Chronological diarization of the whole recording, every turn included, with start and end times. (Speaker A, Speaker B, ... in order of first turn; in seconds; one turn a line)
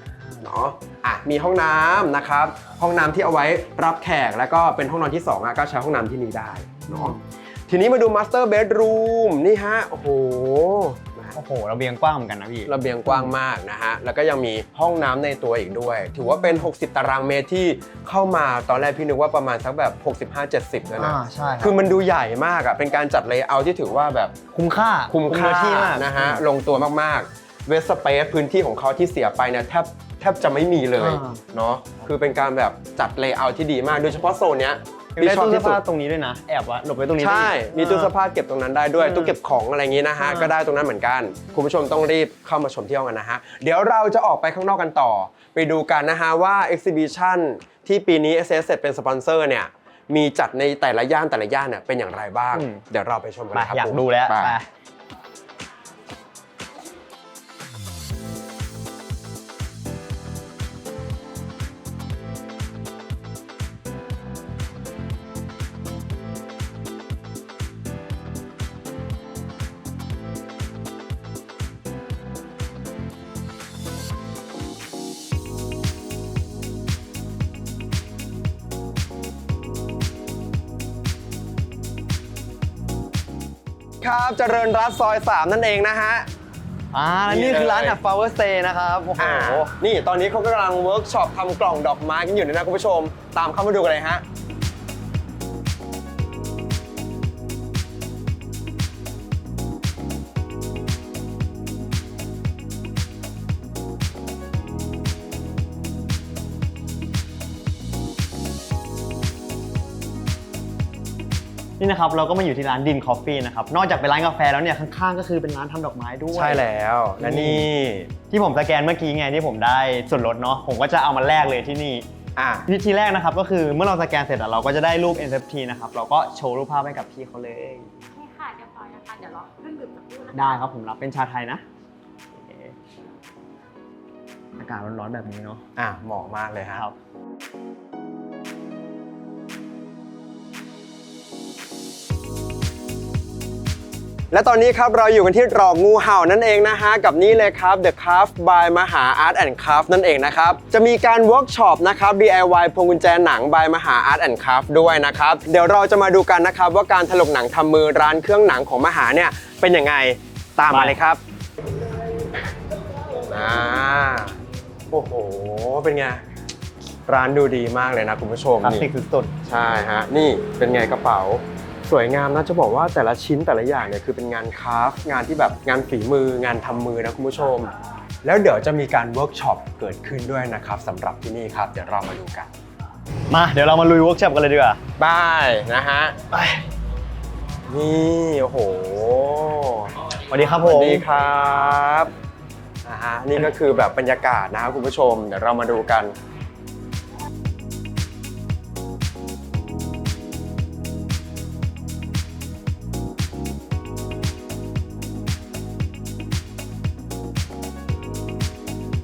Speaker A: 0.2-0.5
Speaker B: 0.4-11.3
Speaker A: 6.7-7.1
Speaker A: 11.3-13.3
Speaker B: 12.7-24.3
Speaker A: 21.0-21.8
Speaker A: 24.5-26.4
Speaker B: 25.1-35.8
Speaker A: 31.0-31.4
Speaker A: 35.2-38.1
Speaker B: 37.2-54.6
Speaker A: 39.0-39.3
Speaker A: 40.2-40.5
Speaker A: 52.5-52.8
Speaker A: 53.5-54.7
Speaker B: 84.0-86.3
Speaker A: 86.9-89.7
Speaker B: 87.3-88.0
Speaker B: 89.2-94.2
Speaker A: 111.8-116.6
Speaker B: 116.3-118.1
Speaker A: 117.2-117.7
Speaker A: 118.3-122.1
Speaker B: 122.4-122.7
Speaker A: 122.7-127.9
Speaker C: 128.2-130.3
Speaker A: 130.3-131.6
Speaker A: 132.3-132.8
Speaker A: 134.6-135.6
Speaker B: 135.8-136.8
Speaker B: 144.3-161.2
Speaker A: 160.7-161.0
Speaker B: 163.3-164.4
Speaker B: 164.9-166.2
Speaker B: 167.1-168.9
Speaker A: 168.6-169.3
Speaker B: 169.4-177.7
Speaker B: 178.2-182.5
Speaker A: 183.3-184.8
Speaker B: 185.0-186.2
Speaker B: 187.7-189.9
Speaker A: 190.3-191.0
Speaker B: 190.6-192.1
Speaker B: 192.8-196.2